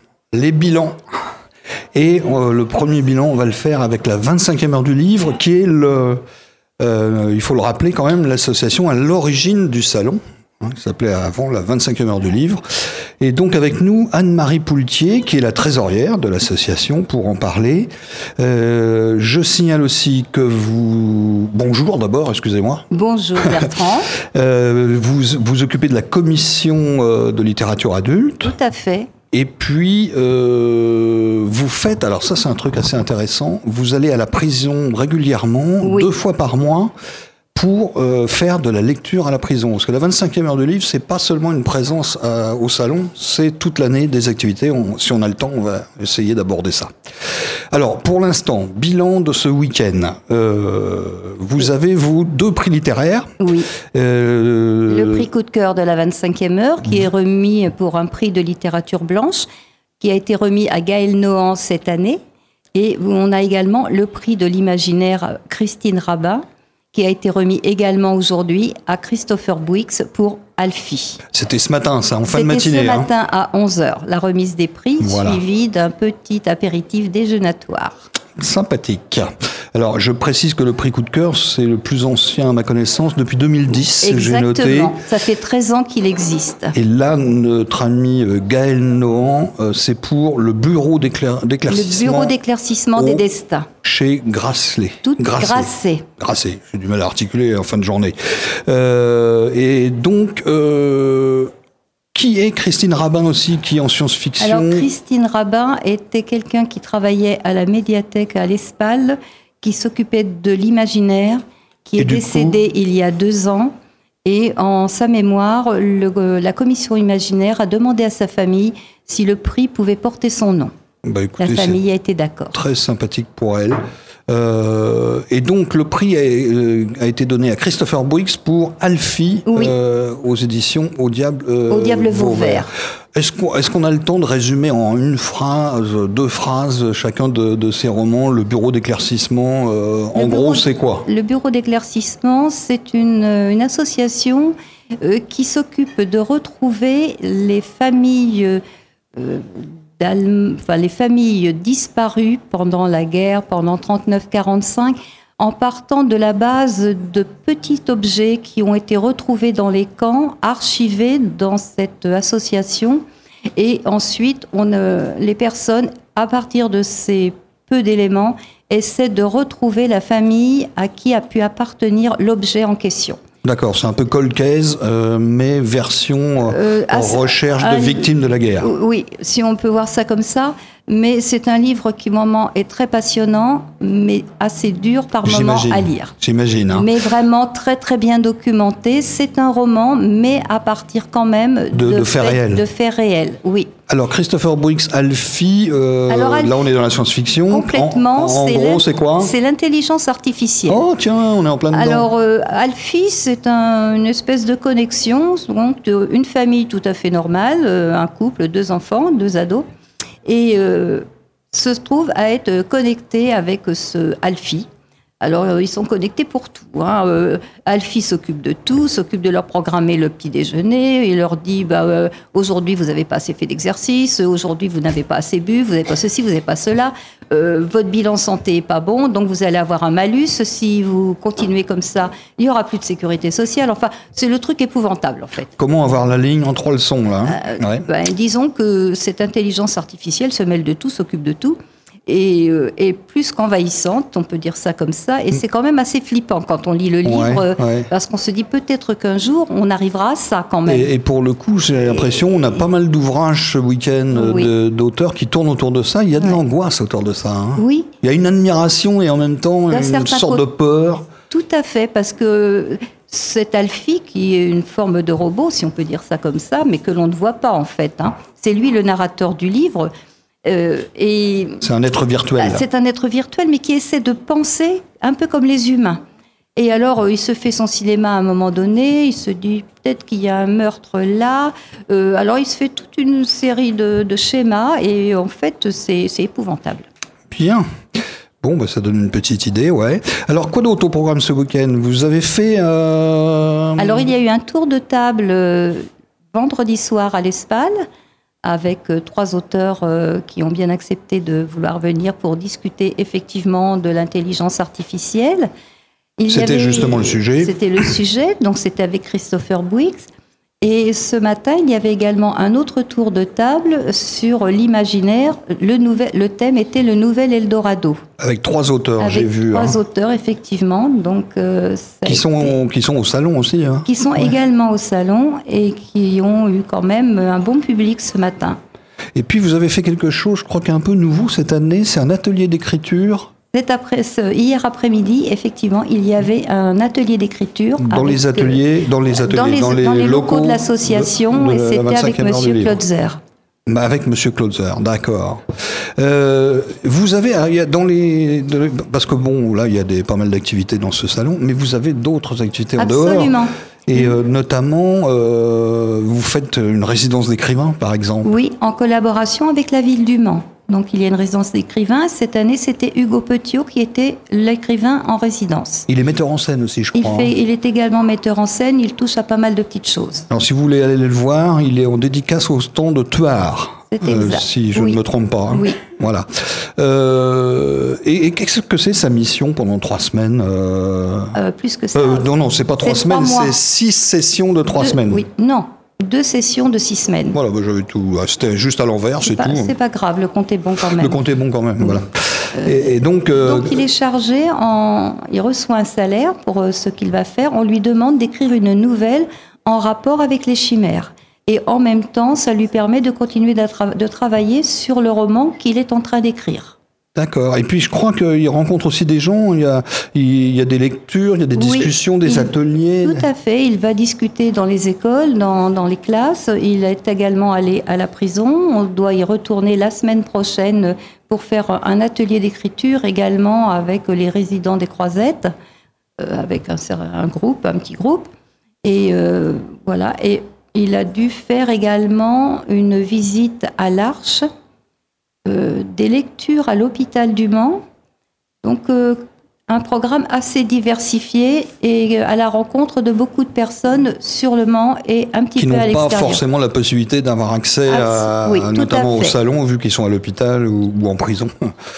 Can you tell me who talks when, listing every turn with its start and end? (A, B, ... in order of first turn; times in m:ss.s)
0:00.3-0:01.0 A
0:01.9-0:06.2 A
0:06.8-0:12.6 A
0:13.2-0:22.9 A
0:22.9-0:24.1 B
0:23.4-0:23.7 A
0:24.2-0:28.5 A
0:28.4-0:29.1 B
0:29.3-0:36.9 A
0:35.8-0:36.1 B
0:37.5-0:46.9 A
0:47.7-0:53.3 A
0:53.4-0:53.7 B
0:53.8-0:55.2 A
0:54.9-0:59.5 B
1:00.0-1:02.2 B
1:02.7-1:11.2 B
1:11.3-1:13.1 A
1:12.3-1:18.0 B
1:15.0-1:15.4 A
1:18.4-1:25.0 A
1:24.0-1:26.7 B
1:26.7-1:32.3 A
1:31.7-1:33.7 B
1:33.0-1:33.2 A
1:33.8-1:41.5 A
1:35.0-1:36.0 B
1:42.1-1:44.9 A
1:44.4-1:53.7 B
1:52.0-1:52.6 A
1:54.2-2:00.7 B
2:01.0-2:01.8 A
2:01.4-2:02.6 B
2:02.5-2:21.1 A
2:09.5-2:09.7 B
2:11.7-2:12.7 B
2:20.1-2:28.6 B
2:29.2-2:43.0 B
2:43.6-2:53.2 B
2:53.4-2:58.7 A
2:56.4-2:58.1 B
2:58.6-3:06.1 B
3:05.2-3:06.9 A
3:06.7-3:13.7 B
3:11.7-3:12.6 A
3:13.9-3:19.3 A
3:16.1-3:16.6 B
3:17.5-3:20.8 B
3:20.7-3:22.1 A
3:21.7-3:29.6 B
3:30.2-3:34.7 B
3:35.2-3:55.5 B
3:55.6-3:57.8 A
3:57.2-4:10.9 B
4:07.0-4:07.9 A
4:10.6-4:21.1 A
4:12.1-4:12.6 B
4:14.1-4:14.5 B
4:17.6-4:17.9 B
4:19.7-4:20.4 B
4:21.3-4:29.9 B
4:30.4-4:31.6 B
4:31.6-4:32.6 A
4:32.4-4:36.0 B
4:36.6-4:46.9 B
4:47.3-4:47.6 A
4:48.4-4:54.1 A
4:53.8-4:57.8 B
4:58.4-5:05.5 B
5:06.2-5:10.1 B
5:06.3-5:07.9 A
5:10.6-5:18.0 B
5:18.2-5:19.8 A
5:19.0-5:22.5 B
5:22.0-5:24.3 A
5:23.8-5:28.6 B
5:29.1-5:33.3 A
5:33.5-5:43.2 B
5:37.8-5:42.8 A
5:43.7-5:45.4 A
5:46.0-5:58.3 A
5:52.8-5:54.1 B
5:58.2-6:05.9 B
6:05.9-6:07.3 A
6:06.9-6:10.3 B
6:10.3-6:21.4 A
6:13.9-6:15.8 B
6:21.3-6:22.3 B
6:21.9-6:25.2 A
6:22.8-6:23.5 B
6:24.8-6:27.4 B
6:27.3-6:29.7 A
6:29.2-6:31.2 B
6:30.9-6:33.8 A
6:32.6-6:46.8 B
6:47.1-6:53.2 A
6:51.5-6:52.5 B
6:53.0-7:05.5 B
7:06.2-7:08.3 B
7:08.8-7:14.4 B
7:15.4-7:17.8 B
7:18.6-7:26.4 B
7:25.6-7:31.5 A
7:27.8-7:29.4 B